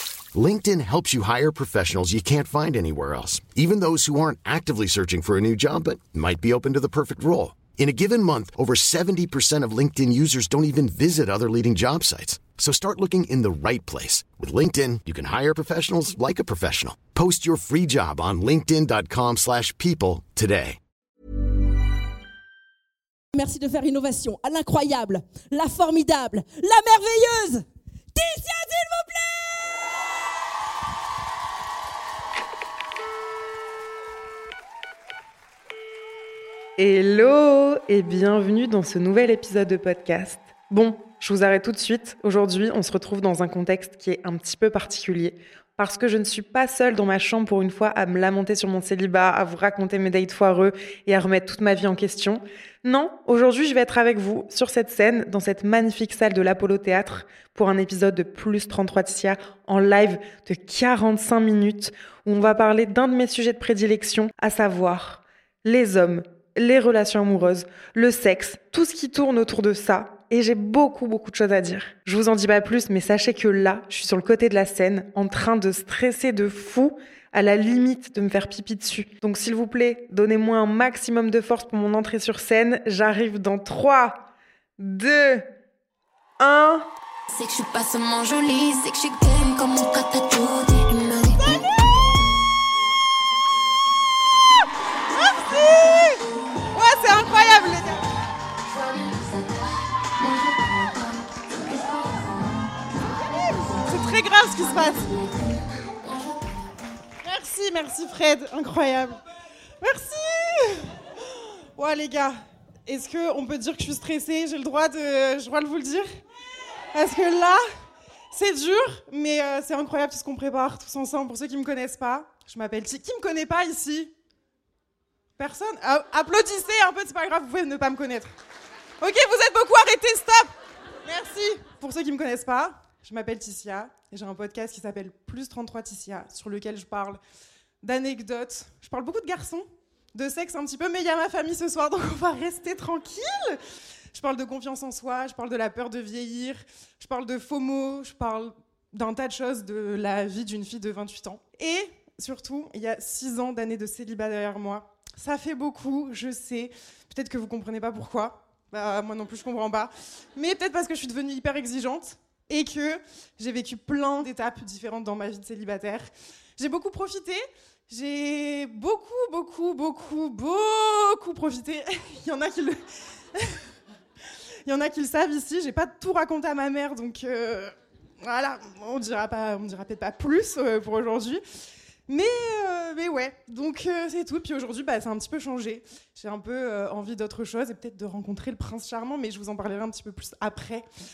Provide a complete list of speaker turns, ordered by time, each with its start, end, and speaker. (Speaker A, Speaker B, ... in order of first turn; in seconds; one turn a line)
Speaker A: 0.3-20.8
Speaker B: 23.3-29.8
Speaker C: 36.8-85.5
Speaker C: 86.4-86.9
Speaker D: 87.3-91.7
Speaker E: 95.1-96.2
Speaker E: 96.7-98.0
Speaker D: 98.6-103.8
Speaker E: 103.8-105.1
Speaker D: 104.6-106.6
Speaker E: 107.2-109.2
Speaker E: 109.8-116.1
Speaker E: 116.9-117.6
Speaker E: 118.3-124.1
Speaker E: 125.4-128.3
Speaker E: 129.0-130.5
Speaker E: 131.0-137.2
Speaker E: 137.8-143.6
Speaker E: 144.1-172.8
Speaker E: 174.7-181.4
Speaker E: 182.1-190.8